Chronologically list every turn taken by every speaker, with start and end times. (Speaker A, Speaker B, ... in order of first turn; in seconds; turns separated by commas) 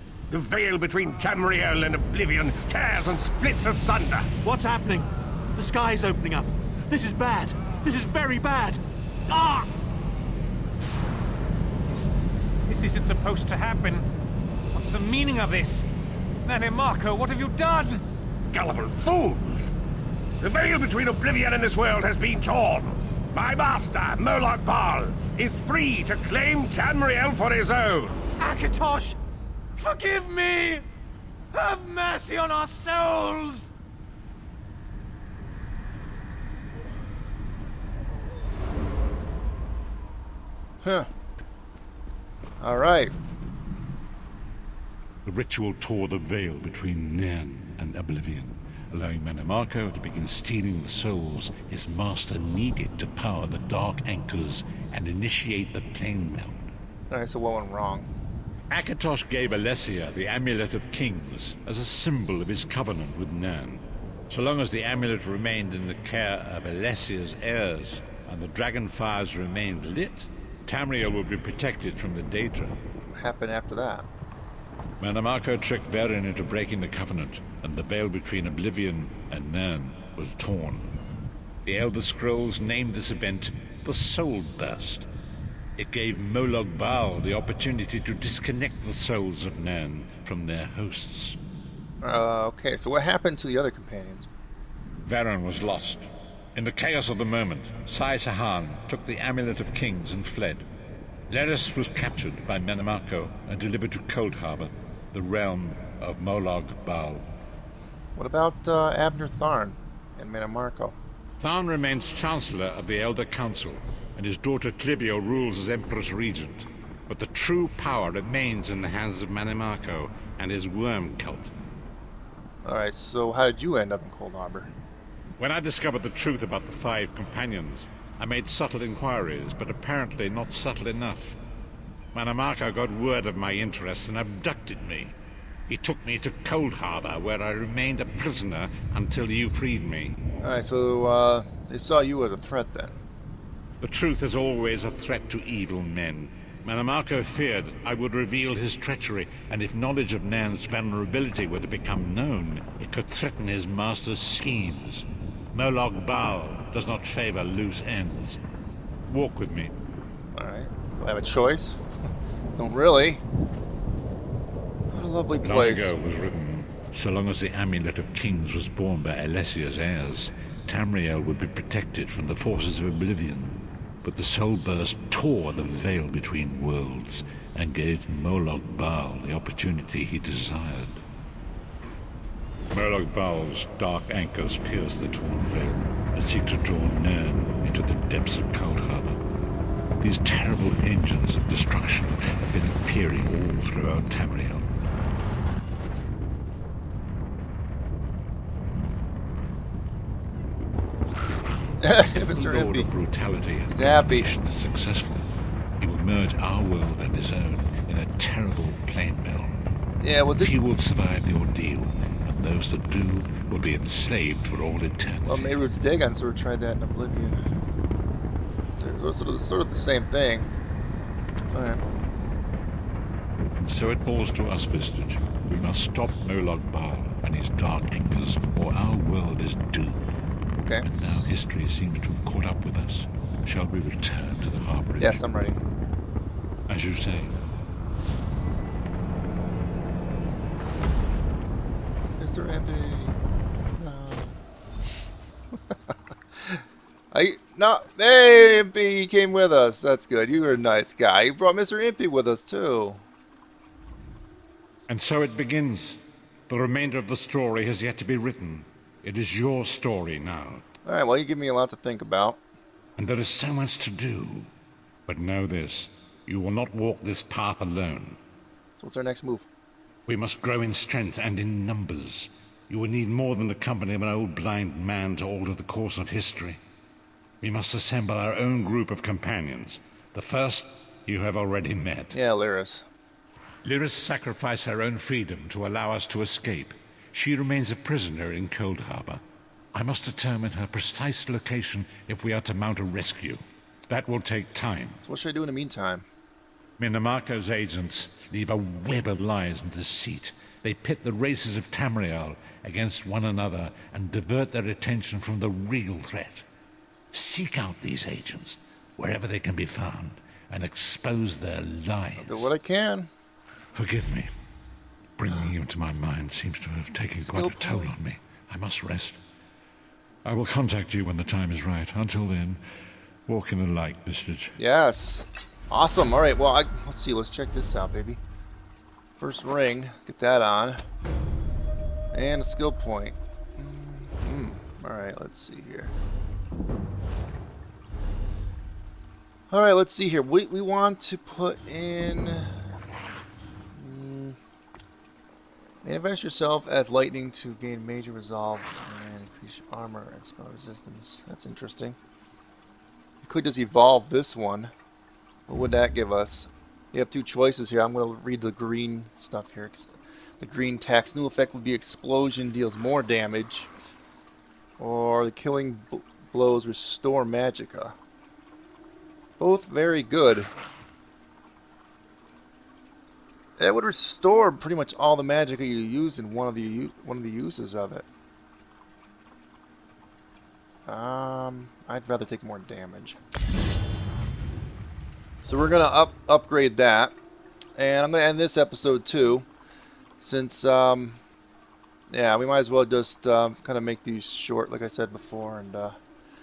Speaker A: 0.3-4.4, Speaker B: 4.4-9.7, Speaker C: 12.7-14.1, Speaker C: 14.7-15.8, Speaker C: 16.4-18.0, Speaker A: 18.5-19.7, Speaker A: 20.4-28.2, Speaker C: 28.3-29.2, Speaker C: 29.8-30.8, Speaker C: 31.5-33.7, Speaker D: 40.8-41.1, Speaker D: 42.6-43.1, Speaker E: 45.2-56.7, Speaker D: 57.1-58.1, Speaker E: 58.7-72.8, Speaker D: 73.1-74.0, Speaker E: 75.0-80.9, Speaker E: 81.6-85.0, Speaker E: 85.8-91.4, Speaker D: 92.0-94.3, Speaker E: 95.0-100.6, Speaker E: 101.3-107.3, Speaker D: 108.2-111.0, Speaker E: 111.4-121.5, Speaker D: 122.6-124.7, Speaker E: 125.4-131.4, Speaker E: 132.1-135.1, Speaker E: 135.7-140.2, Speaker D: 140.4-142.9, Speaker E: 143.8-158.4, Speaker E: 159.1-159.7, Speaker D: 160.3-161.8, Speaker D: 162.6-163.2, Speaker D: 164.9-165.9, Speaker E: 165.4-181.0, Speaker E: 182.7-189.2, Speaker E: 190.0-194.7, Speaker D: 201.8-202.9, Speaker E: 202.1-205.2, Speaker D: 203.7-204.3, Speaker E: 205.8-209.6, Speaker D: 210.0-210.5, Speaker E: 210.4-215.6, Speaker D: 215.2-217.5, Speaker D: 218.7-220.5, Speaker D: 221.5-221.8, Speaker E: 223.6-230.0, Speaker D: 230.6-231.3, Speaker E: 230.8-235.2, Speaker D: 235.0-235.6, Speaker E: 236.7-237.3, Speaker D: 242.2-243.2, Speaker D: 243.8-244.3, Speaker D: 247.1-253.0, Speaker E: 254.9-260.6, Speaker D: 260.8-262.4, Speaker E: 263.0-264.5, Speaker E: 265.1-268.2, Speaker D: 268.8-269.4, Speaker E: 270.1-276.6, Speaker E: 277.4-282.1, Speaker D: 282.1-282.9, Speaker E: 283.6-289.2, Speaker E: 289.7-295.0, Speaker D: 295.0-296.0, Speaker E: 296.8-306.4, Speaker E: 307.1-312.5, Speaker D: 312.2-313.1, Speaker E: 313.7-314.3, Speaker E: 315.2-319.2, Speaker D: 317.2-317.9, Speaker E: 320.2-322.6, Speaker E: 323.2-324.6, Speaker D: 324.6-328.2, Speaker D: 329.2-330.8, Speaker D: 332.1-335.9, Speaker D: 339.5-342.5, Speaker D: 343.7-344.4, Speaker D: 345.8-352.0, Speaker D: 353.2-354.7, Speaker D: 355.5-363.7, Speaker D: 364.8-367.9, Speaker D: 369.4-370.5, Speaker D: 373.6-378.1, Speaker D: 380.9-383.2, Speaker D: 385.4-387.1, Speaker D: 387.8-389.4, Speaker D: 390.2-391.2, Speaker D: 392.1-395.9